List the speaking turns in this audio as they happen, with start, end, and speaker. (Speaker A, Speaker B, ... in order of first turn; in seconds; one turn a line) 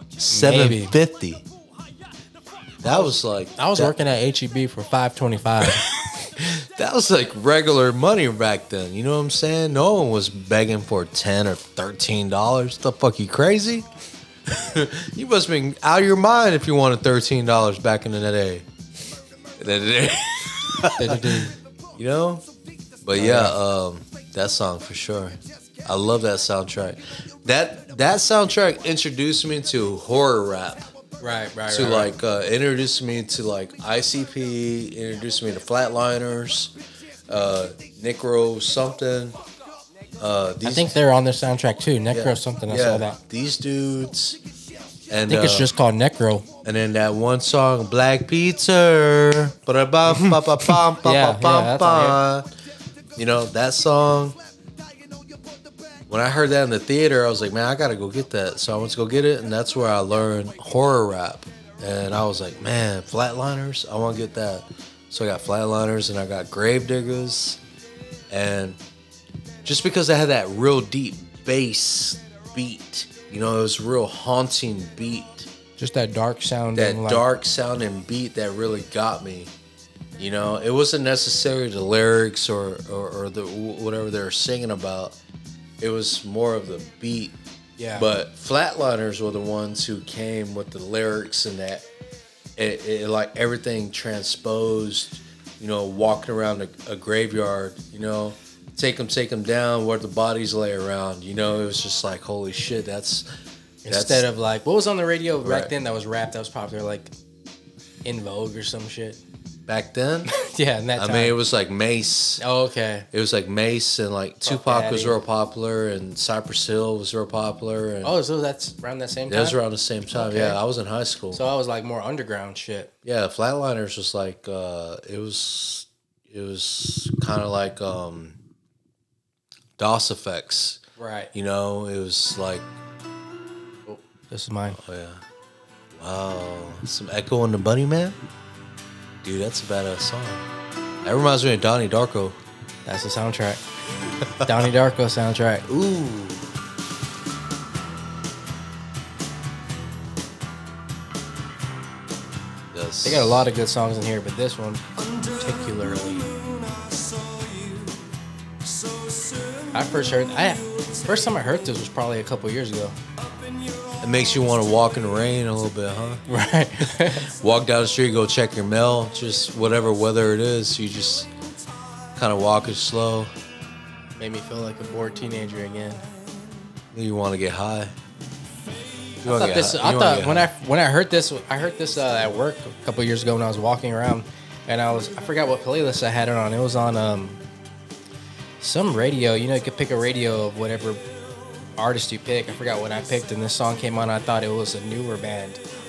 Speaker A: 0.2-1.4
Speaker B: 0.3-0.9
Speaker A: 2.8-3.9
Speaker B: 3.6-5.9
Speaker A: 6.3-13.9
Speaker A: 14.5-18.6
Speaker A: 19.6-22.4
Speaker B: 20.9-21.5
Speaker A: 23.0-30.9
Speaker B: 23.1-23.6
Speaker B: 31.2-32.1
Speaker A: 31.7-36.7
Speaker A: 37.3-39.4
Speaker A: 40.2-41.0
Speaker B: 40.6-43.2
Speaker A: 42.1-44.4
Speaker A: 45.1-45.7
Speaker B: 45.3-46.5
Speaker A: 46.6-52.5
Speaker B: 50.1-52.2
Speaker A: 53.1-54.4
Speaker A: 56.1-67.6
Speaker A: 68.3-68.8
Speaker A: 69.6-75.5
Speaker B: 75.8-77.2
Speaker A: 76.7-79.5
Speaker A: 80.2-85.2
Speaker A: 85.8-87.3
Speaker B: 87.8-88.1
Speaker A: 87.9-91.9
Speaker A: 92.6-103.3
Speaker B: 103.8-107.1
Speaker A: 103.9-104.2
Speaker A: 105.4-105.7
Speaker B: 108.0-109.2
Speaker A: 109.7-110.3
Speaker B: 110.3-111.3
Speaker A: 111.0-112.4
Speaker B: 112.4-113.1
Speaker A: 113.1-118.1
Speaker B: 114.4-115.2
Speaker B: 118.0-119.6
Speaker A: 119.3-121.4
Speaker B: 120.1-120.6
Speaker B: 121.3-122.9
Speaker A: 123.0-128.4
Speaker A: 129.8-130.8
Speaker B: 131.0-131.3
Speaker A: 131.3-132.7
Speaker B: 133.9-134.8
Speaker A: 134.8-135.2
Speaker A: 135.9-138.2
Speaker A: 139.2-140.4
Speaker A: 141.0-142.4
Speaker B: 142.8-143.6
Speaker A: 144.2-144.5
Speaker B: 144.4-145.7
Speaker A: 145.7-146.5
Speaker A: 152.7-153.4
Speaker B: 153.0-156.3
Speaker B: 159.7-163.0
Speaker A: 164.0-166.2
Speaker B: 166.3-167.3
Speaker A: 167.2-171.3
Speaker A: 172.2-173.3
Speaker B: 174.2-176.1
Speaker A: 176.9-177.9
Speaker A: 179.2-180.5
Speaker B: 179.2-187.4
Speaker B: 188.6-191.0
Speaker B: 191.8-195.6